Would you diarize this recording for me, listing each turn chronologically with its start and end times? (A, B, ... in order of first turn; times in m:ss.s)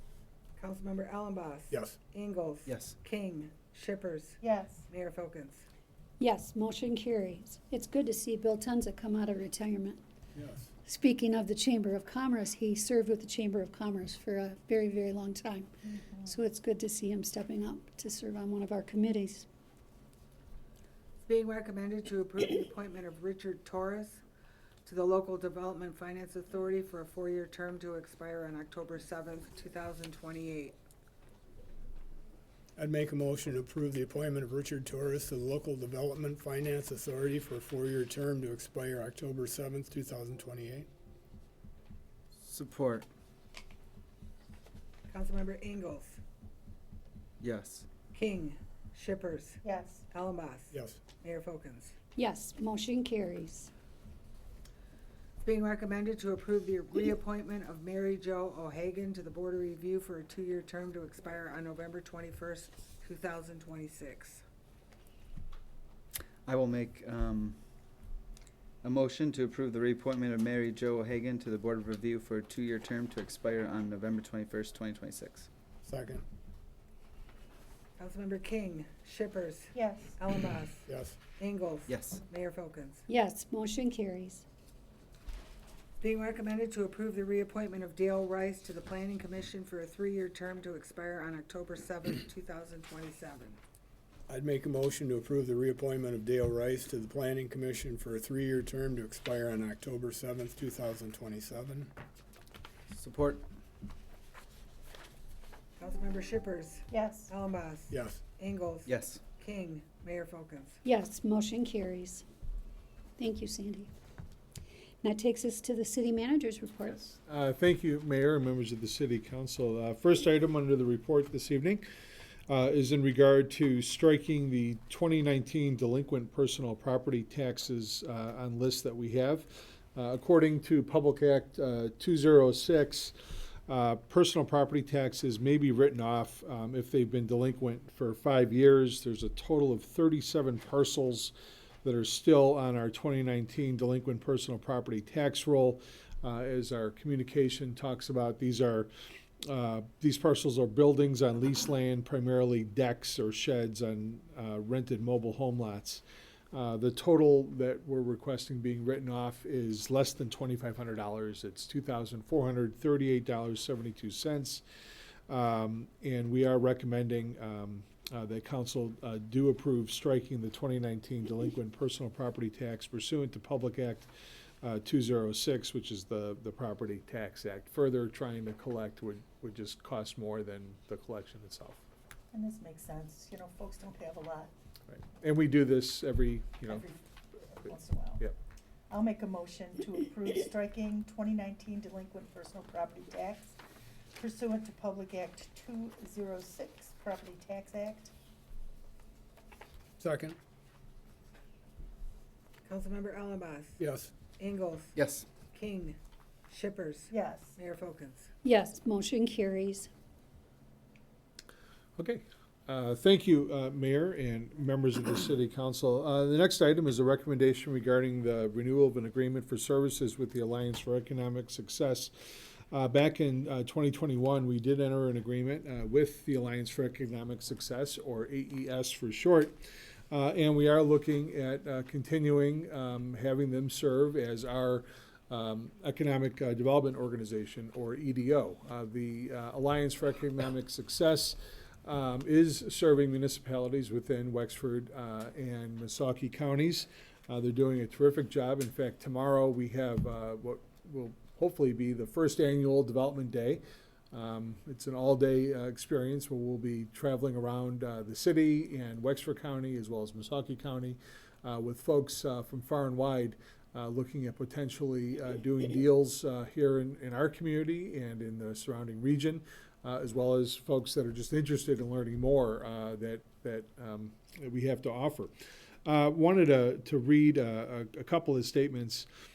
0:00.6-0:05.7 A
0:01.7-0:02.0 B
0:04.4-0:04.9 C
0:06.2-0:10.0 D
0:10.3-0:10.7 B
0:10.8-0:15.7 D
0:15.9-0:16.3 C
0:16.2-0:19.5 D
0:21.3-0:24.2 A
0:24.9-0:30.8 A
0:32.8-0:40.9 B
0:42.5-0:43.1 E
0:45.1-0:46.2 A
0:47.4-0:47.8 E
0:48.1-0:51.9 A
0:49.6-0:50.0 C
0:50.7-0:51.0 B
0:52.2-0:53.7 D
0:55.4-1:04.4 A
1:06.5-1:07.6 E
1:08.8-1:15.5 E
1:15.8-1:16.2 B
1:18.0-1:20.9 A
1:19.7-1:20.2 C
1:20.9-1:21.2 B
1:21.4-1:23.0 A
1:23.1-1:24.4 D
1:26.0-1:33.6 A
1:34.3-1:41.9 B
1:42.9-1:43.4 E
1:45.8-1:50.8 A
1:46.9-1:47.3 C
1:47.9-1:48.2 B
1:48.9-1:49.2 E
1:50.8-1:52.2 D
1:53.2-1:53.9 D
1:55.0-1:57.1 D
1:57.0-2:01.8 F
2:02.5-2:13.1 F
2:13.7-2:21.3 F
2:21.8-2:28.9 F
2:29.5-2:44.6 F
2:45.3-2:54.1 F
2:54.6-3:01.8 F
3:02.3-3:04.5 C
3:04.9-3:06.8 F
3:06.7-3:08.2 C
3:08.9-3:13.6 C
3:14.2-3:18.1 C
3:20.0-3:20.4 B
3:22.7-3:24.9 A
3:23.8-3:24.1 B
3:25.5-3:26.0 A
3:26.5-3:28.3 A
3:27.1-3:27.6 C
3:28.4-3:29.9 D
3:32.0-4:35.3 F
4:35.9-4:39.1 F